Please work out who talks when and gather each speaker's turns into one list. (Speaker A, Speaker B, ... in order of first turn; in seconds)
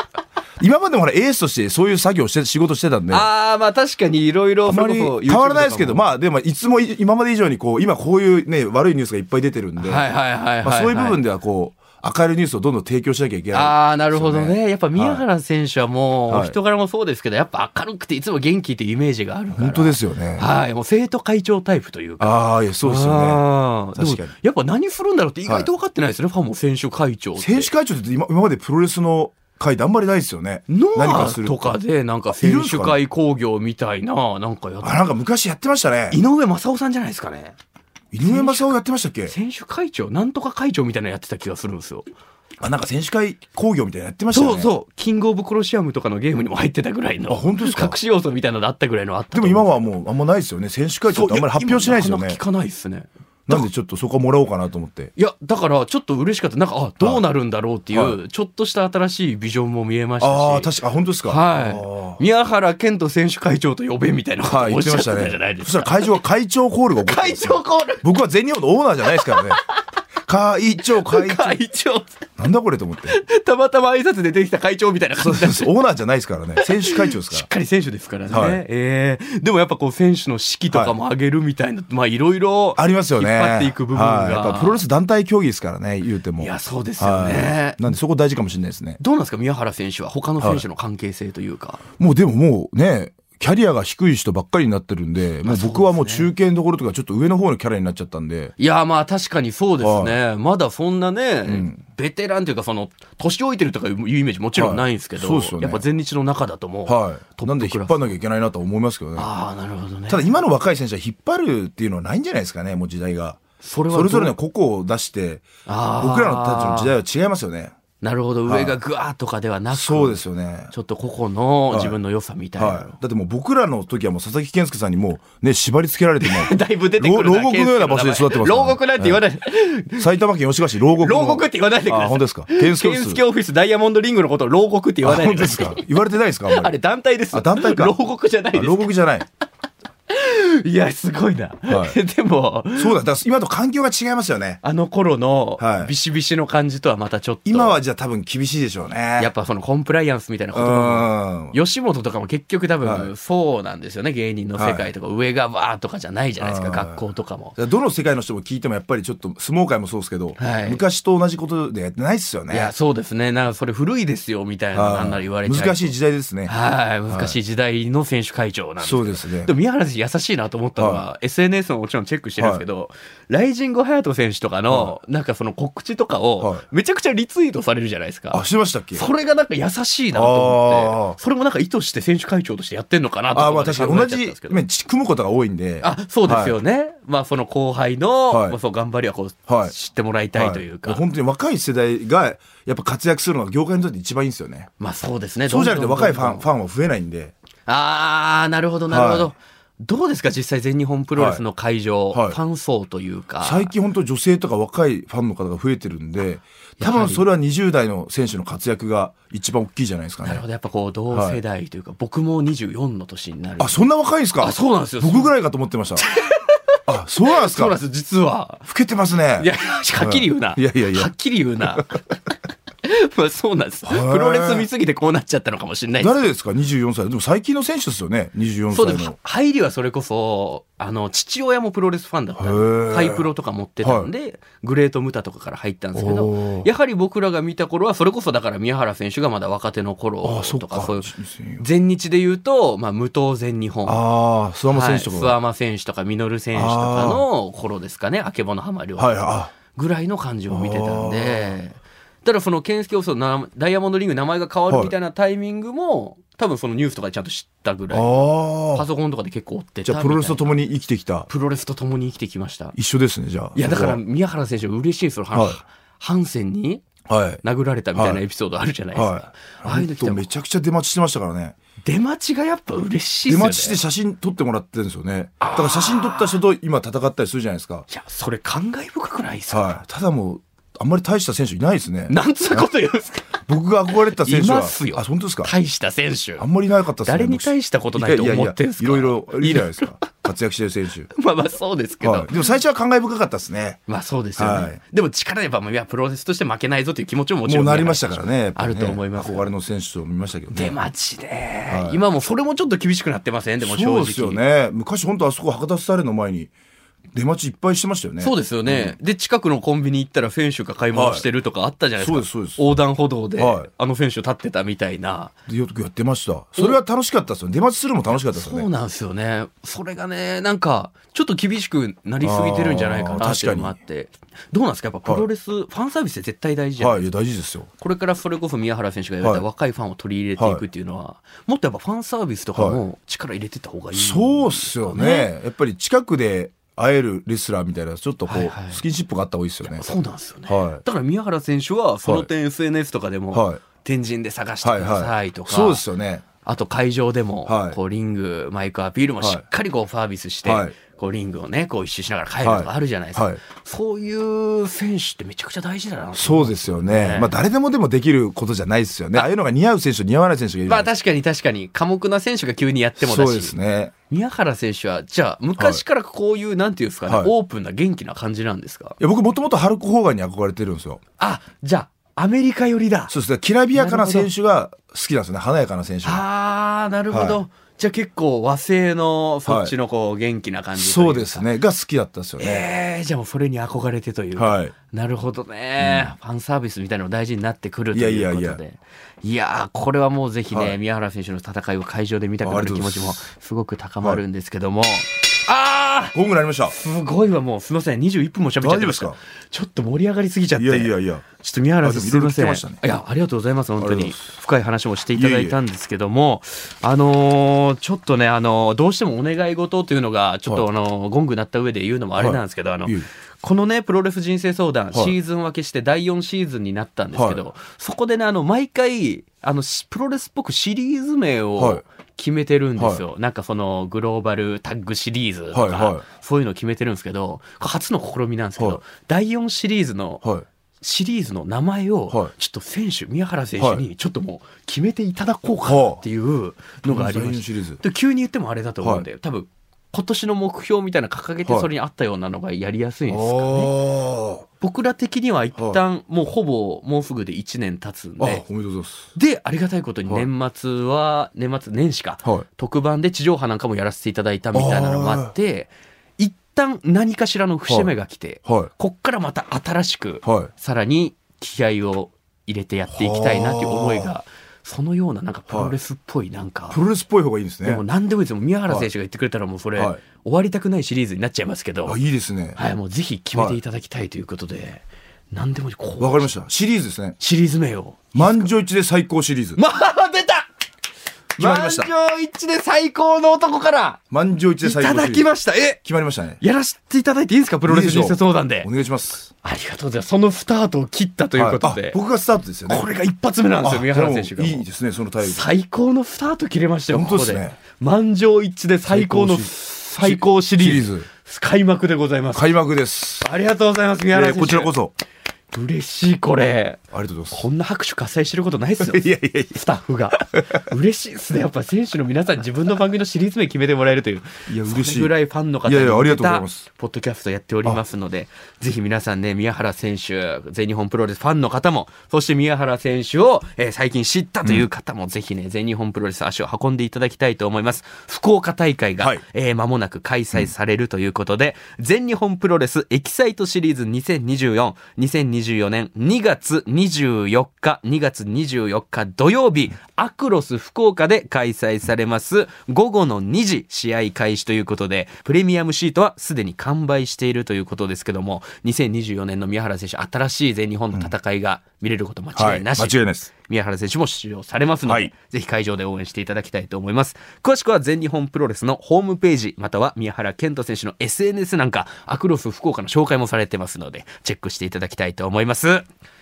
Speaker A: 0.6-3.3, 4.7-10.1, 10.6-15.2, 16.3-16.6, 19.5-20.5, 22.2-24.3, 27.4-31.8, 32.3-33.0, 34.8-36.2, 38.1-39.3, 42.6-44.7, 47.3-48.0, 49.3-52.4, 53.5-55.1, 57.9-58.2, 60.2-62.2, 64.5-69.6, 70.3-71.6, 72.4-73.2, 75.2-77.5, 78.3-78.6, 80.7-81.0, 82.8-89.0, 90.4-90.7, 92.0-98.5, 99.8-100.2, 101.5-101.8, 104.6-105.8, 106.9-109.3, 110.1-115.5, 116.0-117.8, 118.5-118.7, 119.7-120.7, 121.7-122.0, 122.6-129.2, 129.9-133.2, 135.0-136.8, 137.3-139.3, 141.7-142.0, 142.7-144.6, 145.6-145.9, 147.5-149.3, 150.5-151.6, 152.8-153.1, 154.6-154.9, 156.4-157.0, 157.6-162.7, 164.8-166.5, 167.1-167.4, 168.8-169.5, 170.8-171.1, 172.4-172.7, 178.3-179.1, 180.1-181.2, 183.3-186.6, 188.3-188.6, 189.5-189.7, 190.3-194.7, 195.5-197.3, 198.9-199.3, 201.2-201.4, 202.1-202.4, 203.4-210.4, 211.1-211.4, 213.6-216.1, 216.9-217.8, 218.7-221.1, 221.6-221.9, 223.9-224.7, 226.0-229.2, 232.4-233.3, 233.8-234.1, 235.9-236.7, 240.2-241.6, 243.9-245.4, 246.5-247.3, 249.0-249.5, 250.5-251.6, 254.7-254.9, 257.9-258.9, 259.8-261.3, 262.7-264.0, 265.3-265.6, 267.1-267.4, 267.9-268.2, 268.9-271.6, 273.3-277.9, 279.5-282.7, 283.4-285.5, 286.4-291.1, 292.0-293.8, 294.4-294.8, 297.5-300.8, 301.7-302.0, 303.6-306.5, 307.1-309.0, 310.9-311.3, 312.0-312.7, 313.4-313.7, 315.5-318.7, 322.2-323.8, 326.8-327.7, 330.4-330.6, 332.6-332.8, 333.9-339.9, 340.5-340.8, 343.3-343.6, 344.6-346.2, 347.5-347.8, 350.4-350.8, 352.4-353.4, 356.2-360.9, 363.0-363.9, 365.6-365.8, 367.1-367.3, 369.0-371.0, 373.1-376.2, 377.1-377.4, 379.5-379.7, 380.8-382.7, 384.4-384.7, 385.8-386.1, 387.9-388.6, 390.5-390.8, 392.4-393.3, 396.1-396.8, 398.6-399.2, 400.6-401.3, 401.8-402.8, 403.8-404.2, 405.1-405.6, 412.2-413.1, 417.1-417.4, 421.6-421.8, 422.8-423.0, 425.5-426.0, 433.6-433.8, 435.7-436.0, 436.9-437.8, 438.8-439.1, 443.1-444.5, 445.6-445.8, 448.2-449.1, 454.5-455.3, 458.4-458.7, 460.2-460.5, 462.9-464.1, 465.5-465.8, 466.7-467.8, 471.9-472.6, 473.3-473.6, 476.0-477.2, 478.1-479.6, 481.4-481.9, 484.1-486.4, 487.7-489.3, 491.4-492.9, 493.6-495.5, 496.9-497.6, 498.9-501.1, 502.3-503.3, 504.1-504.9, 506.9-507.4, 508.8-509.6, 514.5-515.1, 515.6-516.6, 552.4-553.3, 554.9-555.1
Speaker B: 3.1-6.1, 9.8-11.2, 13.5-27.7, 30.7-35.0, 36.1-37.6, 38.2-38.8, 39.3-42.1, 44.3-49.8, 51.1-53.7, 55.2-60.7, 61.3-66.1, 67.1-68.0, 69.2-69.6, 70.9-72.3, 73.1-75.7, 76.6-84.8, 86.4-87.8, 89.0-91.8, 95.4-96.3, 98.6-108.1, 109.2-110.3, 113.6-114.3, 115.7-116.9, 118.0-123.0, 126.2-130.1, 130.9-135.8, 136.5-138.9, 140.1-143.0, 144.6-147.8, 149.2-157.6, 160.4-160.8, 162.5-165.9, 166.4-184.6, 185.8-191.0, 194.8-196.5, 197.7-203.7, 206.8-207.3, 210.2-213.8, 214.4-215.3, 216.0-216.6, 217.3-218.7, 219.4-222.0, 222.8-226.2, 228.7-244.0, 244.7-260.6, 261.3-262.8, 263.6-266.9, 267.4-270.2, 271.8-273.8, 275.4-276.4, 277.9-279.8, 282.1-283.4, 284.1-286.4, 287.0-290.0, 291.1-292.3, 293.9-299.5, 300.5-304.4, 308.2-315.3, 318.3-327.1, 327.8-335.3, 338.3-338.8, 339.7-345.9, 346.4-357.3, 360.7-363.6, 364.1-369.0, 371.2-373.1, 373.7-374.3, 376.0-381.5, 382.4-396.2, 396.7-430.2, 430.8-443.8, 444.6-448.4, 449.1-466.8, 467.6-472.0, 472.6-476.3, 477.2-478.5, 479.6-480.5, 481.4-484.0, 484.6-485.8, 486.4-488.7, 489.4-492.0, 492.7-494.7, 495.2-502.5, 503.2-504.8, 505.5-565.9